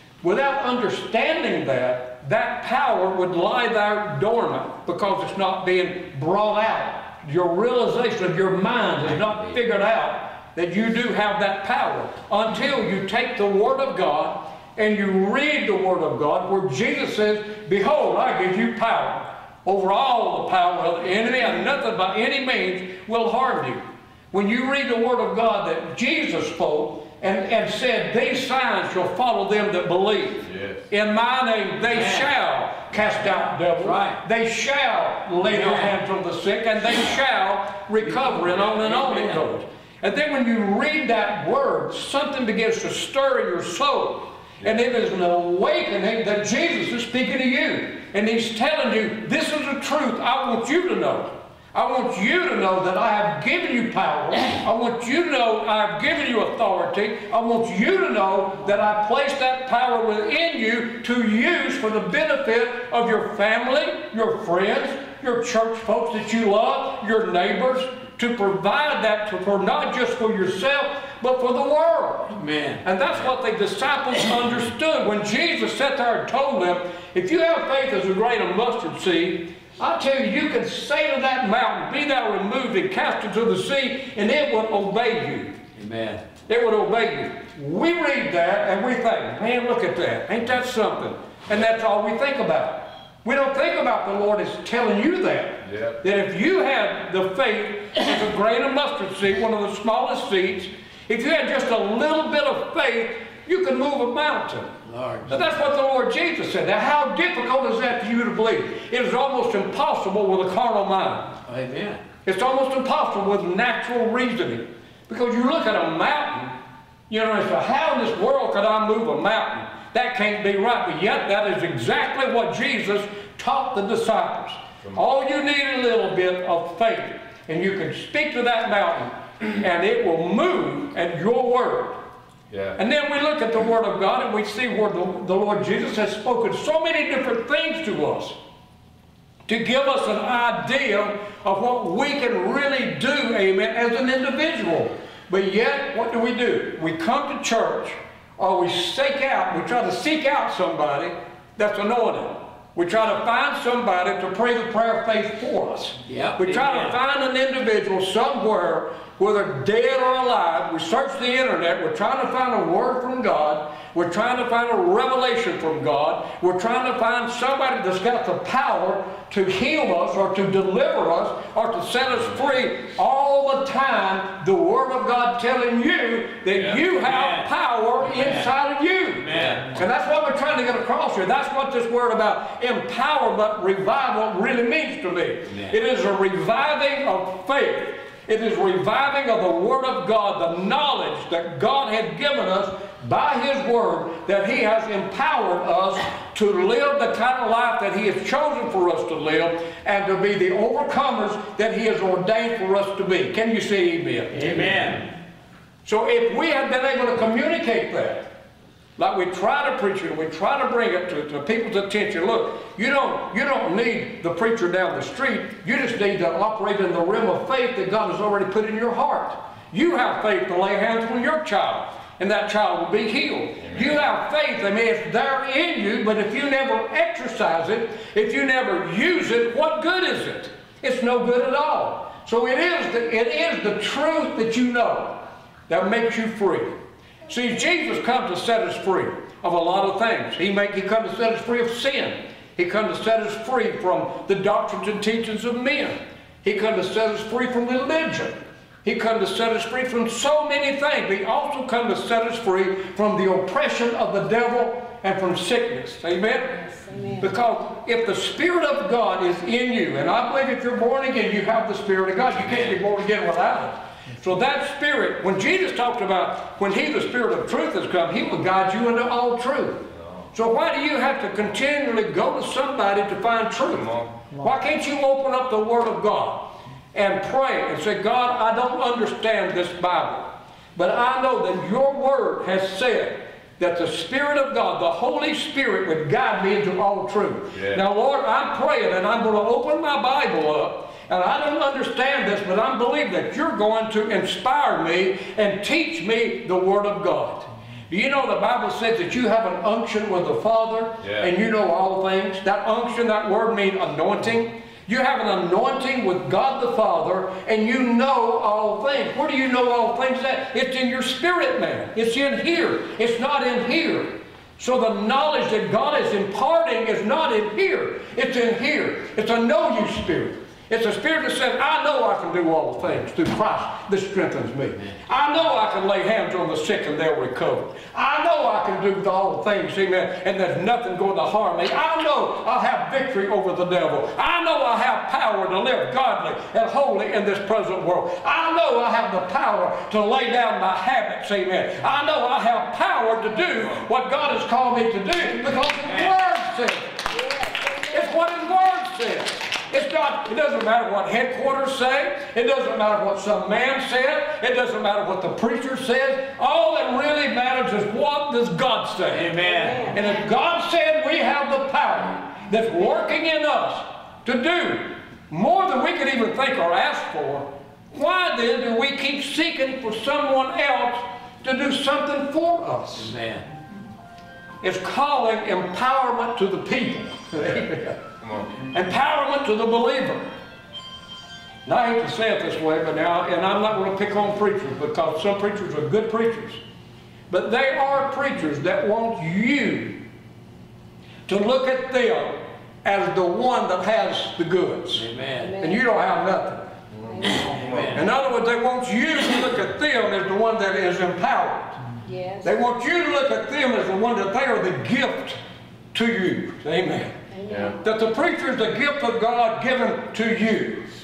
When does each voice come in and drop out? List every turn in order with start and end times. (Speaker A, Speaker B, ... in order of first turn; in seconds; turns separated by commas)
Speaker A: 0.2-85.6, Speaker B: 30.4-30.8, Speaker C: 31.9-32.3, Speaker C: 33.8-34.2, Speaker C: 35.4-35.9, Speaker C: 38.2-39.4, Speaker C: 72.3-72.8, Speaker C: 85.8-86.2, Speaker A: 86.5-104.8, Speaker B: 95.6-96.0, Speaker C: 104.8-105.4, Speaker A: 105.3-111.3, Speaker C: 111.5-112.0, Speaker A: 112.2-116.5, Speaker A: 117.1-132.0, Speaker B: 132.5-132.8, Speaker A: 132.8-138.4, Speaker A: 139.5-204.6, Speaker C: 156.1-156.9, Speaker B: 176.5-176.8, Speaker C: 176.9-177.5, Speaker C: 178.0-178.5, Speaker C: 179.2-179.7, Speaker C: 185.5-185.8, Speaker C: 204.3-205.1, Speaker A: 205.8-208.3, Speaker A: 209.0-236.7, Speaker B: 223.6-224.0, Speaker A: 237.3-347.0, Speaker D: 256.6-257.2, Speaker B: 273.7-274.2, Speaker B: 287.5-287.8, Speaker B: 301.0-301.3, Speaker D: 347.1-348.2, Speaker A: 347.9-359.4, Speaker C: 359.1-359.9, Speaker D: 359.4-360.2, Speaker A: 359.9-373.1, Speaker C: 372.9-373.4, Speaker A: 374.6-378.0, Speaker B: 377.4-377.6, Speaker B: 378.2-378.5, Speaker A: 378.7-380.3, Speaker A: 381.6-386.6, Speaker A: 387.3-390.0, Speaker A: 391.3-395.1, Speaker C: 394.9-395.6, Speaker D: 395.4-395.9, Speaker A: 395.6-396.7, Speaker B: 396.9-398.0, Speaker D: 397.1-397.7, Speaker C: 397.6-398.0, Speaker A: 397.9-401.8, Speaker D: 402.0-402.5, Speaker A: 402.4-405.4, Speaker A: 405.9-407.2, Speaker D: 407.3-407.8, Speaker B: 407.4-407.8, Speaker A: 407.8-410.9